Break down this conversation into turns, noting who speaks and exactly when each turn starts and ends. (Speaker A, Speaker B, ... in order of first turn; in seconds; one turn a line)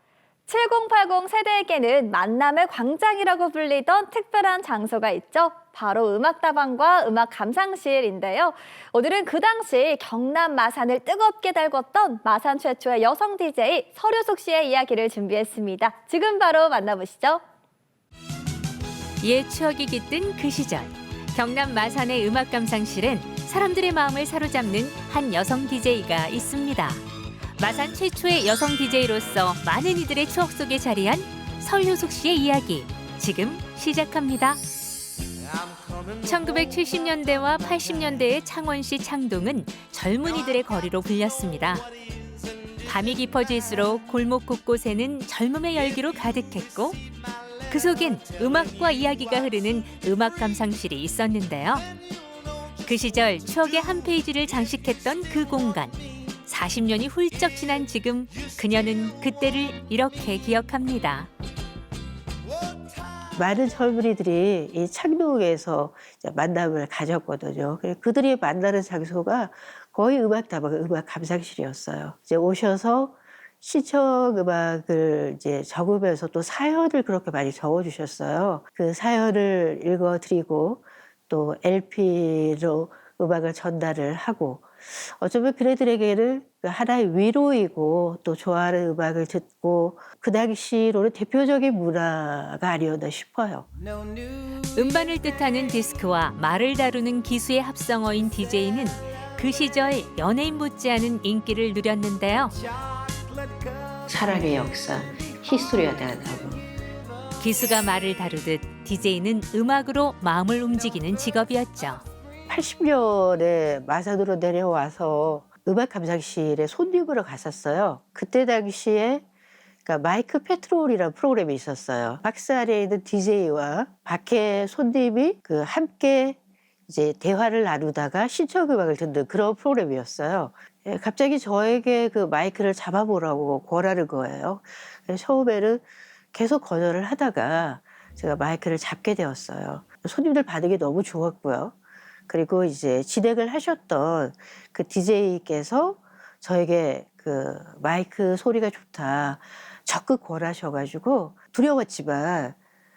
Speaker A: 0.5-17.4
Speaker B: 19.2-27.0
Speaker B: 27.6-34.6
Speaker B: 36.2-41.9
Speaker B: 42.8-47.0
Speaker B: 47.7-51.9
Speaker B: 52.8-61.3
Speaker C: 63.3-93.7
Speaker B: 94.7-102.6
Speaker C: 104.1-106.6
Speaker B: 107.4-112.0
Speaker C: 112.5-119.2
Speaker C: 119.8-141.8
Speaker C: 142.3-152.6